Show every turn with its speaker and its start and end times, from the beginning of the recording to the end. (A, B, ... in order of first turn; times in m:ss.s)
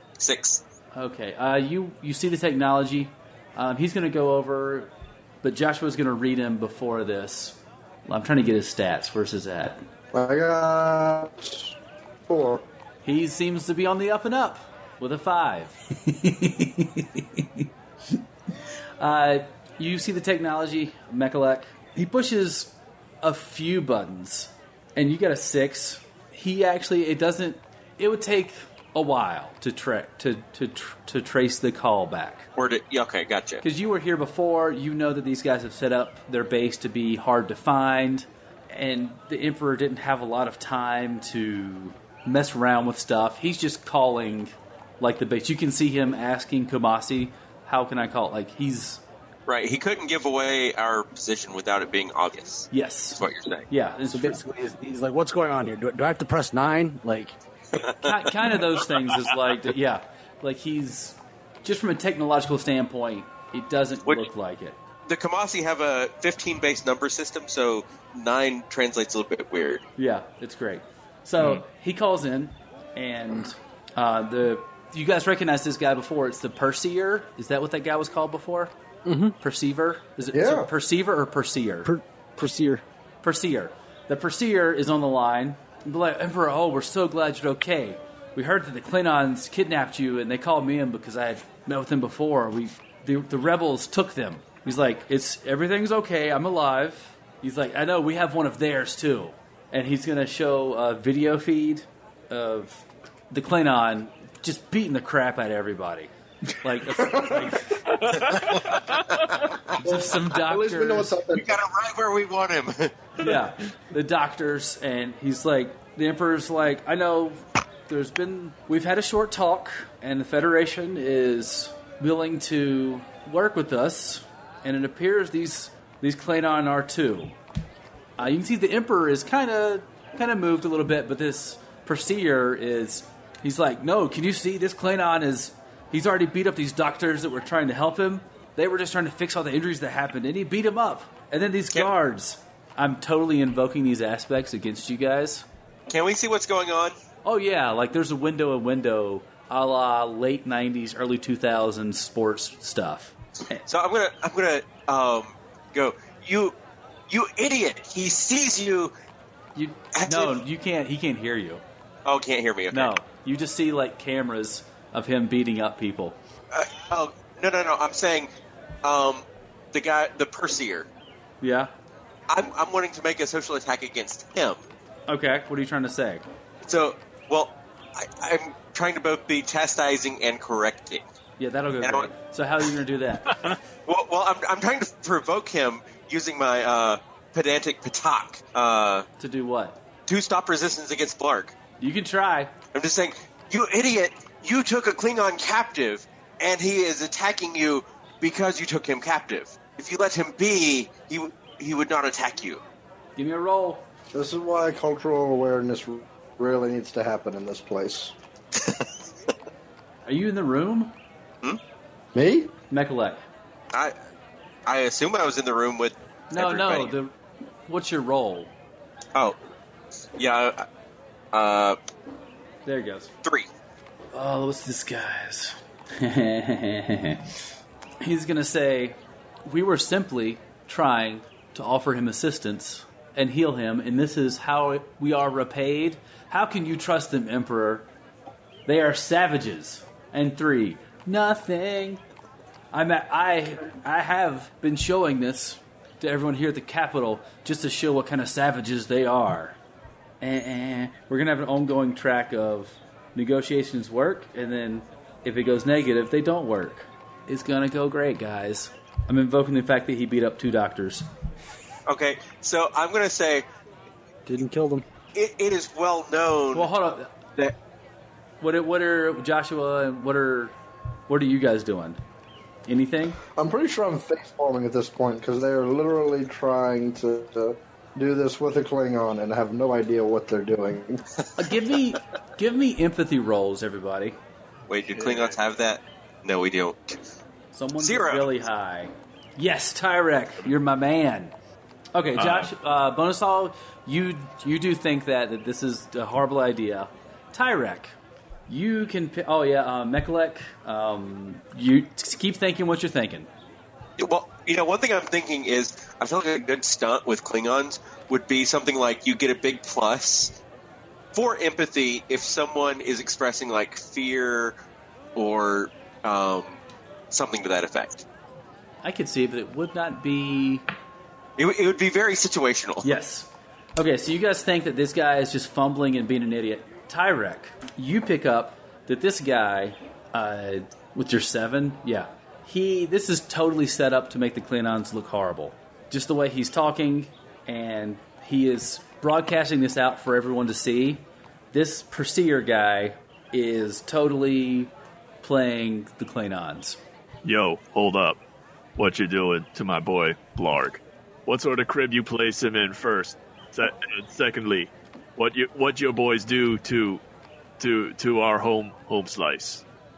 0:00.2-0:00.6 A
0:00.9-0:04.9 B
0:05.4-0:09.8 B
0:10.1-0:11.8 C
0:12.3-0:12.6 C
0:13.0-0:17.6 B
0:19.0-0:32.5 B
0:32.6-0:33.6 A
0:33.6-0:49.0 B
0:49.5-0:53.7 A
0:52.7-0:54.4 B
0:54.1-0:57.4 D
0:58.0-1:04.8 B
1:05.1-1:09.8 A
1:10.0-1:18.7 B
1:19.0-1:19.4 D
1:19.4-1:21.9 B
1:20.3-1:20.7 C
1:21.8-1:22.8 D
1:23.2-1:47.9 B
1:47.0-1:47.5 C
1:47.9-1:49.4 E
1:49.8-1:51.2 B
1:49.8-1:51.6 C
1:51.3-1:52.9 A
1:53.2-2:07.3 B
2:08.2-2:25.4 B
2:25.9-2:26.9 A
2:27.2-2:33.6 B
2:33.7-2:36.6 A
2:37.1-2:38.9 A
2:39.5-2:41.6 B
2:39.9-2:40.4 A
2:42.0-2:42.9 A
2:42.7-2:46.2 B
2:46.5-2:48.3 A
2:48.8-2:50.9 A
2:51.4-2:51.7 B
2:52.3-2:54.6 A
2:55.1-2:56.2 B
2:56.6-3:01.0 A
3:01.4-3:03.4 B
3:01.8-3:02.1 A
3:03.3-3:03.6 E
3:03.8-3:09.1 A
3:09.2-3:09.8 B
3:10.1-3:11.5 A
3:11.8-3:12.5 B
3:12.7-3:22.6 A
3:23.2-3:23.8 B
3:24.1-3:28.1 C
3:28.6-3:28.8 A
3:30.0-3:30.9 B
3:32.1-3:32.5 C
3:32.7-3:33.2 B
3:34.6-3:36.9 A
3:36.3-3:37.1 B
3:37.7-3:38.5 B
3:40.2-3:40.6 A
3:41.3-3:41.8 A
3:42.6-3:43.1 B
3:44.1-3:47.2 B
3:48.0-3:57.9 B
3:58.6-4:02.0 B
4:02.7-4:09.6 B
4:10.2-4:21.1 B
4:21.8-4:23.4 A
4:24.2-4:24.8 D
4:25.1-4:26.7 A
4:26.5-4:27.1 B
4:28.4-4:30.5 B
4:31.1-4:32.0 B
4:32.7-4:33.2 B
4:33.4-4:41.0 C
4:41.4-4:44.2 B
4:44.7-4:47.0 A
4:44.9-4:45.3 E
4:47.5-4:51.3 B
4:47.8-4:48.3 A
4:51.9-4:57.9 B
4:52.2-4:52.5 E
4:58.5-5:03.3 B
5:04.0-5:10.4 A
5:11.1-5:14.6 A
5:15.2-5:16.6 A
5:17.1-5:18.0 A
5:18.8-5:20.6 B
5:21.4-5:22.9 A
5:22.8-5:46.8 B
5:47.2-5:48.2 E
5:48.8-5:57.0 E
5:57.6-5:59.6 E